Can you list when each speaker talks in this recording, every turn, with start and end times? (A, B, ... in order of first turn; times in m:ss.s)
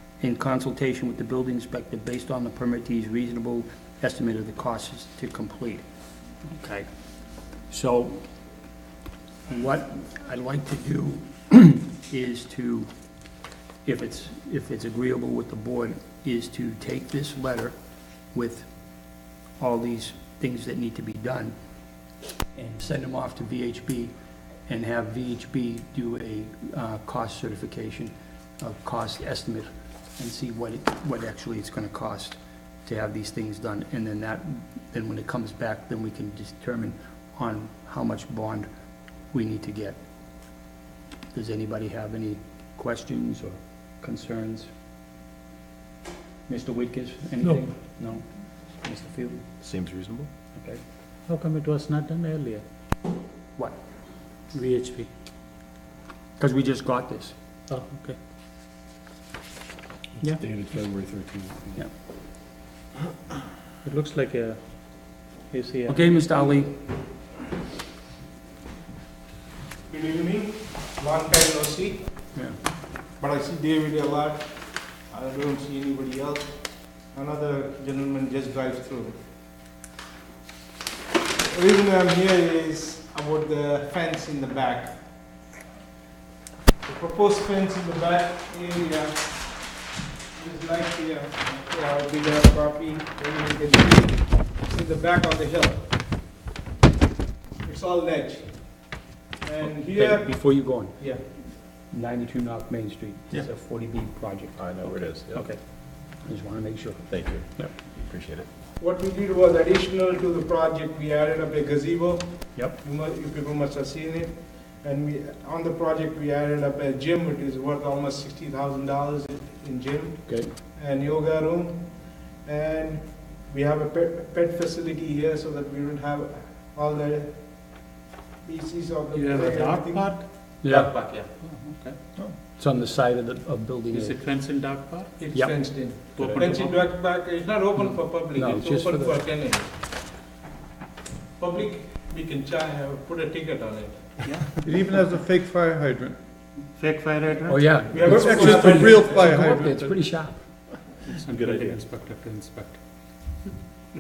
0:00.2-0:05.8 A
0:06.5-0:06.9 A
0:07.7-0:08.2 A
0:09.5-0:12.9 A
0:13.8-0:17.8 A
0:18.3-0:18.7 A
0:19.6-0:21.5 A
0:22.6-0:24.1 A
0:24.7-0:38.7 A
0:39.3-0:40.0 A
0:41.3-0:44.7 A
0:46.5-0:48.3 A
0:48.8-0:49.5 A
0:49.6-0:50.3 B
0:50.6-0:50.8 A
0:51.3-0:52.6 C
0:54.5-0:55.1 C
0:56.4-0:57.4 A
0:57.7-0:58.2 C
1:00.4-1:01.8 B
1:03.8-1:06.0 C
1:05.9-1:06.8 A
1:09.9-1:12.2 D
1:13.2-1:19.2 D
1:21.3-1:25.1 D
1:26.8-1:29.8 D
1:30.4-1:35.9 D
1:37.6-1:41.2 D
1:39.8-1:47.7 A
1:44.6-1:45.4 B
1:47.1-1:48.5 B
1:48.8-2:07.8 D
2:00.3-2:00.5 A
2:08.4-2:10.2 D
2:09.1-2:12.0 C
2:10.6-2:10.9 A
2:12.6-2:14.2 A
2:13.9-2:16.8 C
2:15.2-2:19.7 D
2:15.3-2:16.4 A
2:18.3-2:19.2 A
2:21.4-2:24.3 D
2:24.6-2:26.2 E
2:26.7-2:28.2 C
2:27.5-2:30.4 A
2:27.9-2:29.1 D
2:28.0-2:30.4 E
2:31.0-2:32.8 C